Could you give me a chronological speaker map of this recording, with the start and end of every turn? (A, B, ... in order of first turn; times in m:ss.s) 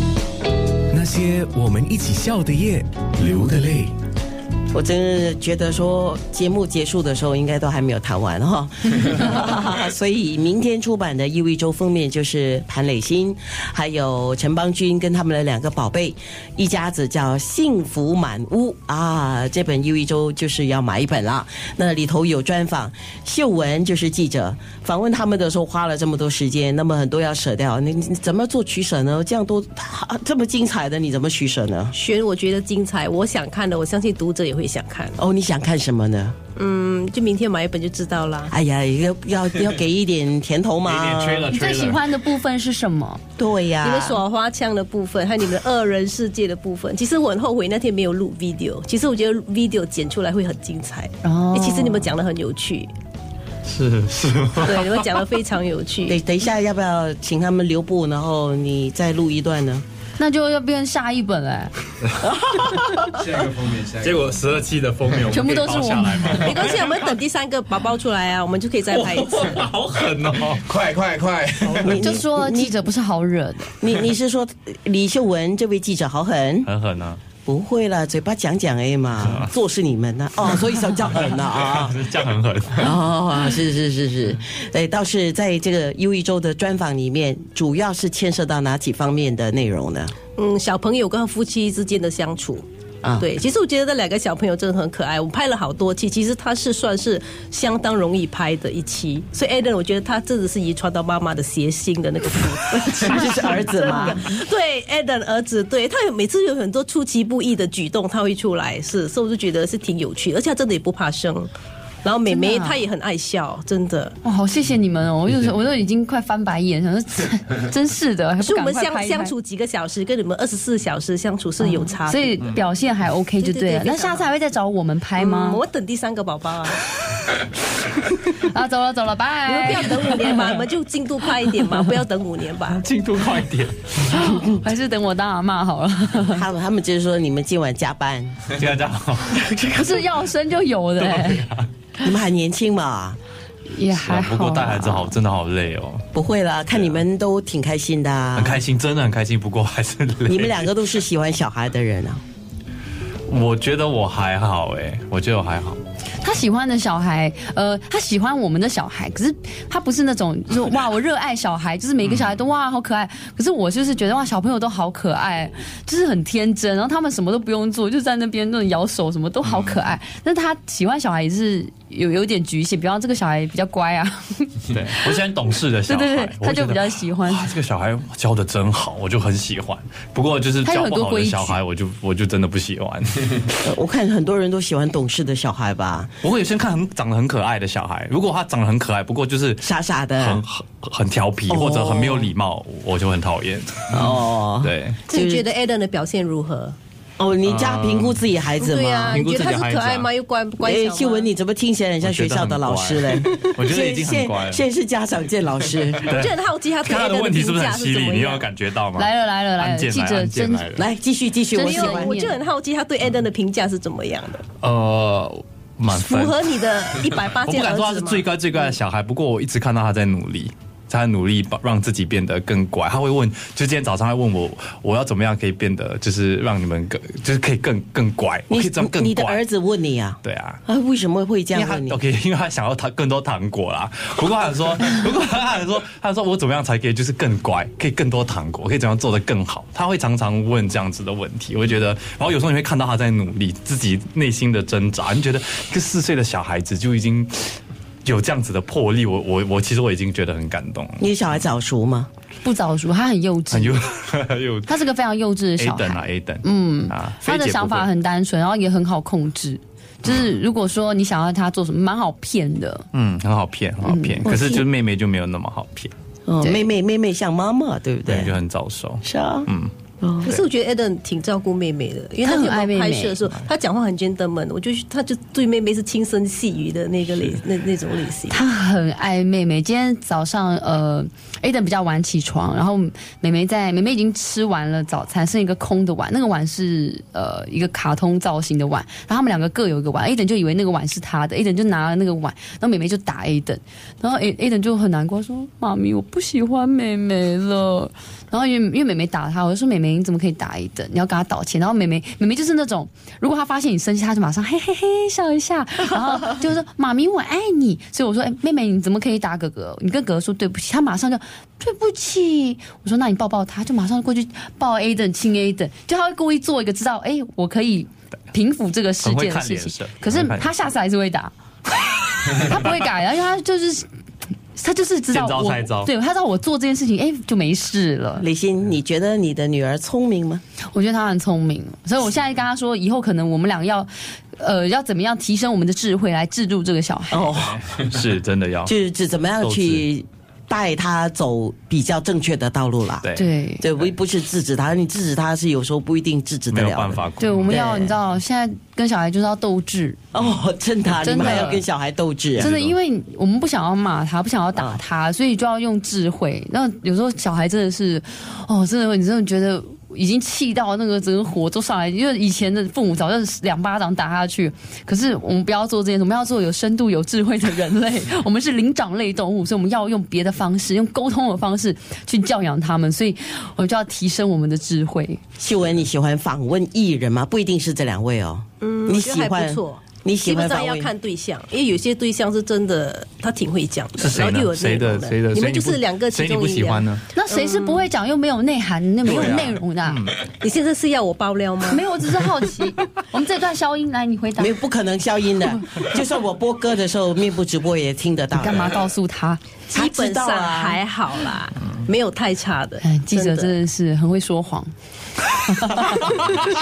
0:00.9-0:03.9 A
0:04.7-0:32.0 B
0:31.9-0:35.2 C
0:35.2-0:36.3 B
0:36.6-0:38.5 C
0:38.5-0:41.5 B
0:40.8-0:42.0 D
0:41.5-0:43.2 E
0:43.4-0:44.2 B
0:43.8-0:52.9 C
0:51.2-0:52.1 E
0:53.7-0:55.0 D
0:54.6-0:56.2 C
0:56.1-0:59.8 B
1:00.2-1:01.7 E
1:02.2-1:03.2 B
1:02.8-1:07.1 D
1:05.3-1:06.5 E
1:06.4-1:09.4 C
1:08.9-1:11.9 D
1:11.2-1:11.5 A
1:11.6-1:12.7 B
1:11.9-1:13.7 E
1:13.8-1:16.7 B
1:16.6-1:17.2 D
1:17.4-1:22.0 B
1:21.4-1:23.0 D
1:22.8-1:30.1 B
1:30.4-1:32.6 C
1:33.2-1:51.5 C
1:42.7-1:44.2 B
1:52.0-1:54.2 C
1:52.3-1:52.8 E
1:54.2-1:59.3 E
1:58.4-2:02.4 C
2:01.6-2:05.6 E
2:03.4-2:04.3 C
2:05.2-2:06.8 C
2:08.2-2:10.2 E
2:09.5-2:12.8 C
2:12.7-2:14.0 D
2:14.1-2:16.4 E
2:16.3-2:18.4 B
2:18.5-2:20.1 D
2:19.7-2:21.5 E
2:21.1-2:21.6 D
2:22.0-2:23.2 B
2:23.7-2:25.2 E
2:23.9-2:26.0 D
2:26.1-2:28.6 B
2:26.7-2:27.0 D
2:28.4-2:30.6 D
2:30.3-2:32.2 B
2:33.3-2:35.8 D
2:36.2-2:55.2 E
2:42.0-2:42.3 D
2:49.4-2:49.9 D
2:54.7-3:03.6 D
2:55.9-2:57.6 E
3:00.6-3:01.6 E
3:03.6-3:06.1 B
3:06.2-3:15.0 D
3:09.6-3:10.4 B
3:11.5-3:12.3 B
3:13.9-3:15.4 B
3:15.1-3:16.8 C
3:17.2-3:19.2 B
3:17.4-3:18.2 D
3:18.6-3:21.3 C
3:19.0-3:20.1 D
3:20.6-3:26.0 B
3:22.0-3:24.6 D
3:26.0-3:30.9 D
3:26.1-3:28.5 C
3:29.0-3:30.8 E
3:30.8-3:32.2 B
3:31.5-3:32.4 E
3:31.6-3:34.4 C
3:34.6-3:36.4 D
3:35.9-3:38.4 C
3:37.4-3:49.4 D
3:48.5-3:52.0 B
3:50.2-3:50.6 D
3:51.5-4:11.1 D
4:11.0-4:12.1 B
4:12.4-4:13.8 E
4:13.5-4:14.8 D
4:14.7-4:22.9 E
4:15.6-4:17.9 D
4:22.9-4:25.9 D
4:23.8-4:24.2 E
4:24.2-4:24.6 B
4:26.3-4:28.3 B
4:26.4-4:26.7 E
4:28.1-4:29.7 D
4:29.0-4:29.5 B
4:30.0-4:30.3 B
4:30.2-4:38.4 C
4:32.2-4:33.2 E
4:38.3-5:21.3 E
5:19.0-5:20.5 D
5:22.3-5:23.9 E
5:24.5-5:28.2 E
5:25.1-5:25.9 D
5:28.2-5:30.4 B
5:30.7-5:37.3 E
5:37.1-5:37.6 B
5:37.6-5:38.7 D
5:38.6-5:43.1 B
5:39.4-5:39.8 D
5:43.0-5:43.3 D
5:43.1-5:43.6 E
5:43.6-5:47.9 B
5:46.5-5:47.6 D
5:47.2-5:50.0 E
5:50.1-5:52.5 B
5:51.0-5:51.6 E
5:51.2-5:51.4 D
5:52.4-5:52.7 D
5:52.4-6:15.2 E
6:15.4-6:20.9 B
6:18.6-6:27.8 C
6:24.0-6:27.1 D
6:27.1-6:30.0 E
6:29.0-6:30.2 D
6:30.4-6:31.9 C
6:31.6-6:34.6 E
6:34.4-6:38.7 B
6:38.4-6:39.4 E
6:39.7-6:43.5 C
6:39.7-6:40.8 B
6:42.8-6:44.7 E
6:45.3-6:46.2 E